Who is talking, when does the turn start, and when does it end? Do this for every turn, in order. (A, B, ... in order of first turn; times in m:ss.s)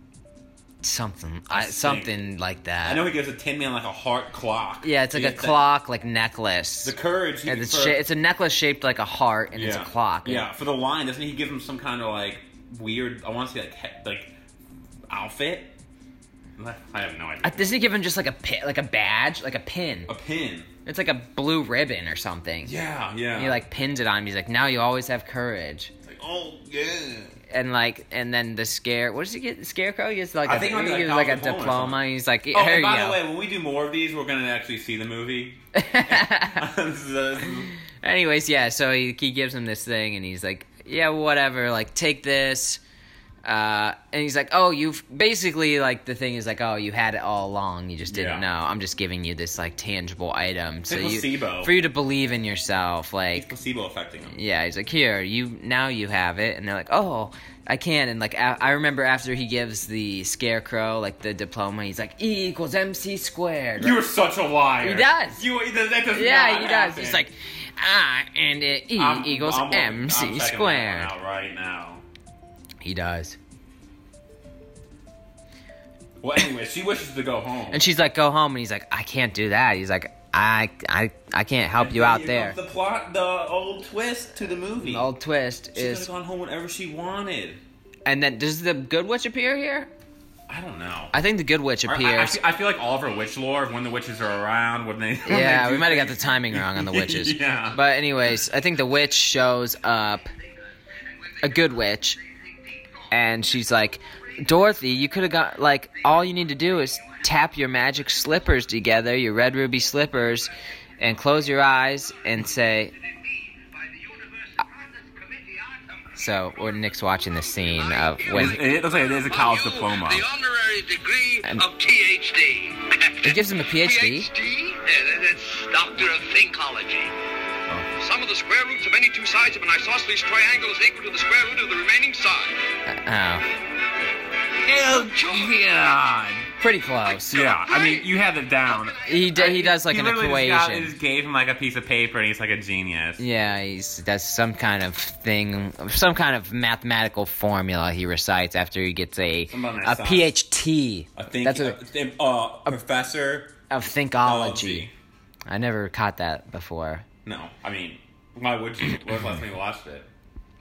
0:00.8-0:03.0 A
0:01.5-0:02.1 B
0:02.8-0:05.6 B
0:04.8-0:07.0 A
0:06.8-0:08.0 B
0:07.4-0:10.5 A
0:09.6-0:14.3 B
0:15.1-0:15.7 B
0:16.6-0:17.7 B
0:17.4-0:20.1 A
0:20.1-0:20.7 B
0:20.8-0:22.7 A
0:22.6-0:23.6 B
0:23.3-0:25.9 A
0:26.0-0:27.4 B
0:27.5-0:33.2 A
0:30.4-0:37.7 B
0:35.7-0:36.7 A
0:38.0-0:42.8 A
0:43.4-0:53.5 A
0:48.1-0:48.4 B
0:50.9-0:51.8 B
0:53.3-0:54.4 B
0:54.3-1:04.0 A
1:03.8-1:07.2 B
1:04.8-1:05.4 A
1:06.1-1:11.1 A
1:09.0-1:12.0 B
1:12.8-1:13.4 A
1:16.2-1:17.9 B
1:17.7-1:22.6 A
1:21.8-1:25.1 B
1:24.7-1:26.1 A
1:25.7-1:27.6 B
1:28.0-1:29.9 A
1:30.5-1:31.1 B
1:31.1-1:32.4 A
1:31.8-1:37.8 B
1:35.3-1:40.3 A
1:41.4-1:42.2 A
1:43.1-1:52.9 A
1:53.8-1:55.7 C
1:56.1-1:58.6 A
1:58.3-2:00.3 B
1:58.4-2:07.1 C
2:03.2-2:04.3 A
2:08.0-2:12.6 C
2:12.9-2:13.4 A
2:14.6-2:16.5 B
2:14.9-2:15.5 C
2:16.6-2:17.5 A
2:17.3-2:23.2 B
2:17.6-2:18.0 C
2:19.0-2:20.9 A
2:23.2-2:31.8 A
2:29.5-2:30.3 B
2:31.2-2:33.6 B
2:33.7-2:34.9 A
2:34.2-2:34.9 B
2:35.5-2:37.0 A
2:37.2-2:40.1 B